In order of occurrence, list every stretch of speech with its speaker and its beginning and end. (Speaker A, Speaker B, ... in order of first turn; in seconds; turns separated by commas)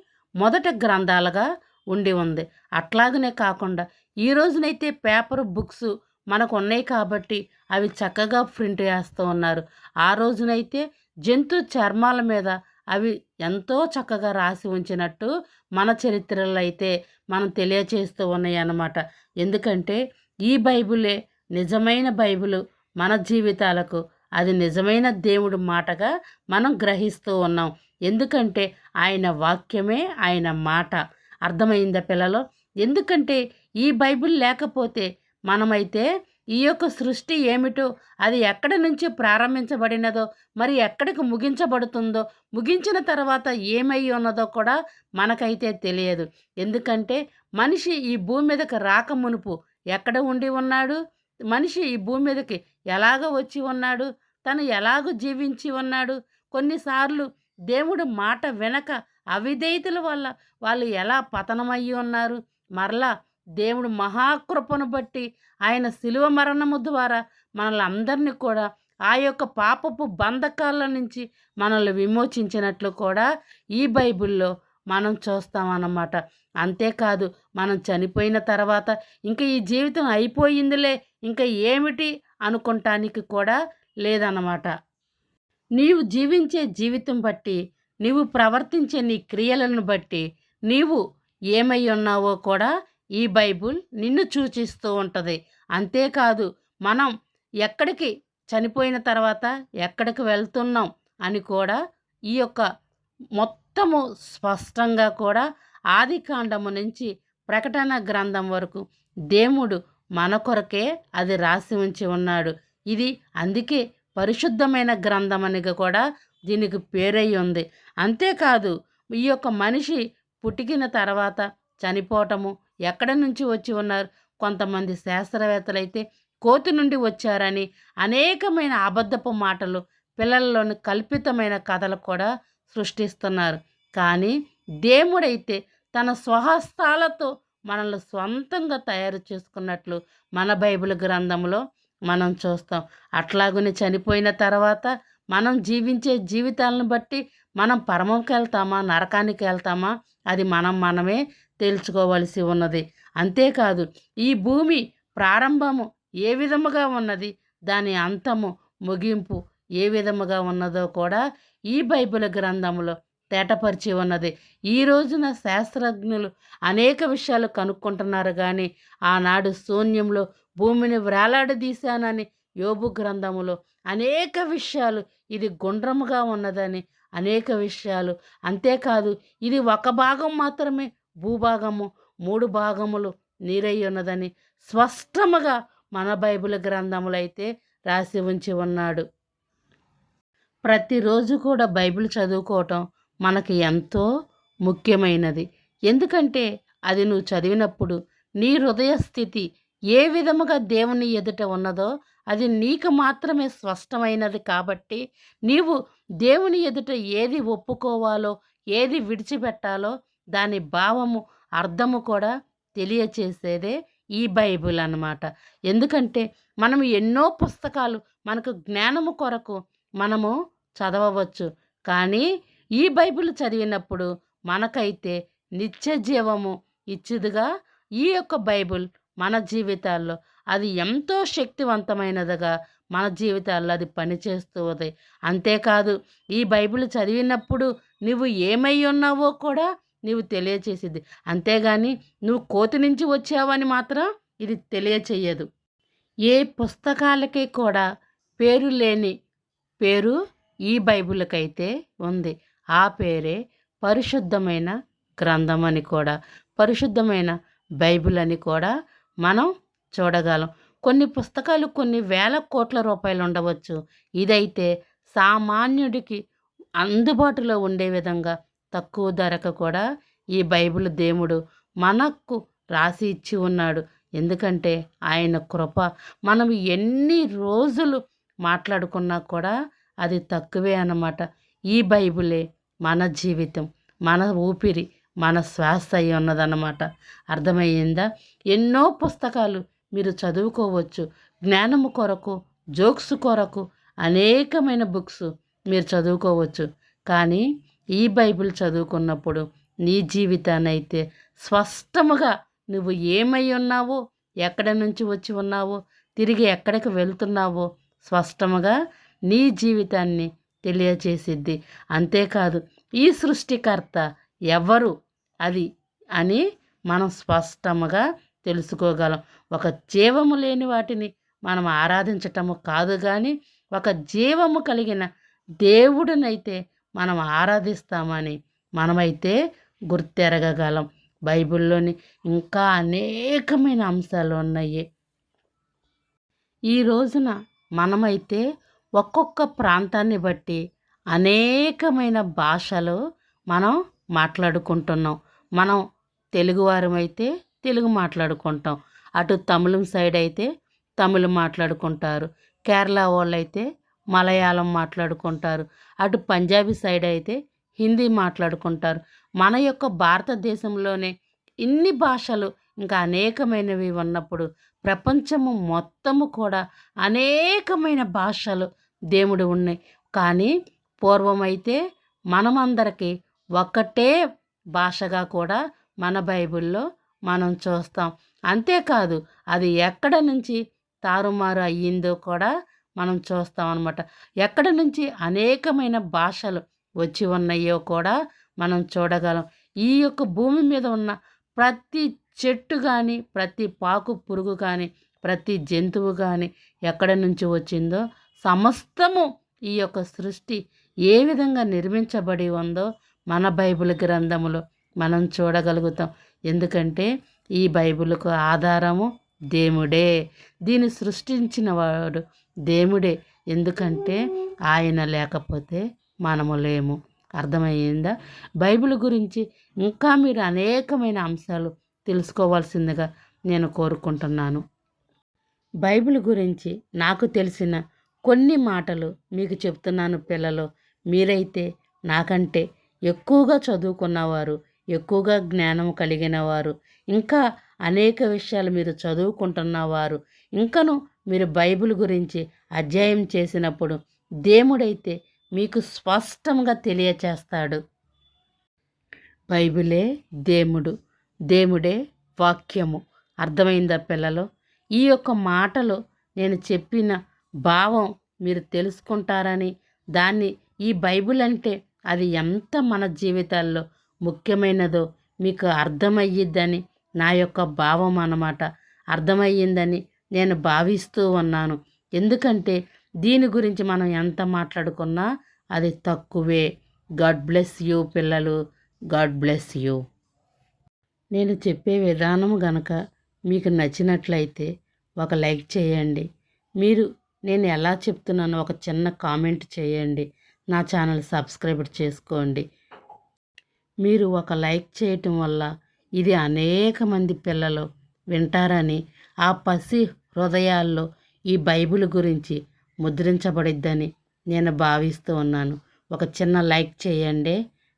Speaker A: 0.4-36.0, Speaker A: 36.6-51.0, Speaker A: 51.5-63.1, Speaker A: 63.6-73.3, Speaker A: 73.8-84.7, Speaker A: 85.8-91.0, Speaker A: 91.5-97.1, Speaker A: 97.6-101.8, Speaker A: 102.3-102.7, Speaker A: 103.4-161.2, Speaker A: 161.7-189.0, Speaker A: 190.7-194.1, Speaker A: 194.7-199.4, Speaker A: 199.9-222.3, Speaker A: 222.8-227.5, Speaker A: 228.0-245.5, Speaker A: 246.3-247.8, Speaker A: 248.4-249.1, Speaker A: 249.8-250.2, Speaker A: 250.7-258.7, Speaker A: 259.2-266.2, Speaker A: 266.8-269.8, Speaker A: 270.4-279.5, Speaker A: 280.0-281.2, Speaker A: 281.7-297.5, Speaker A: 298.0-308.8, Speaker A: 309.3-314.9, Speaker A: 316.2-325.1, Speaker A: 325.6-329.4, Speaker A: 329.9-334.8, Speaker A: 336.7-338.4, Speaker A: 339.0-340.6, Speaker A: 341.1-343.0, Speaker A: 343.5-345.8, Speaker A: 346.4-350.5, Speaker A: 351.0-361.1, Speaker A: 361.6-370.5, Speaker A: 371.0-371.8, Speaker A: 372.4-374.1, Speaker A: 374.8-400.6, Speaker A: 401.1-410.1, Speaker A: 410.7-414.2, Speaker A: 414.7-424.6, Speaker A: 425.9-444.0, Speaker A: 444.5-447.8, Speaker A: 449.5-450.9, Speaker A: 451.5-454.4, Speaker A: 455.0-468.6, Speaker A: 469.1-476.7, Speaker A: 477.2-478.6, Speaker A: 479.1-480.0, Speaker A: 481.4-482.9, Speaker A: 483.5-484.7, Speaker A: 485.2-486.2, Speaker A: 486.8-492.6, Speaker A: 494.0-495.7, Speaker A: 496.2-507.6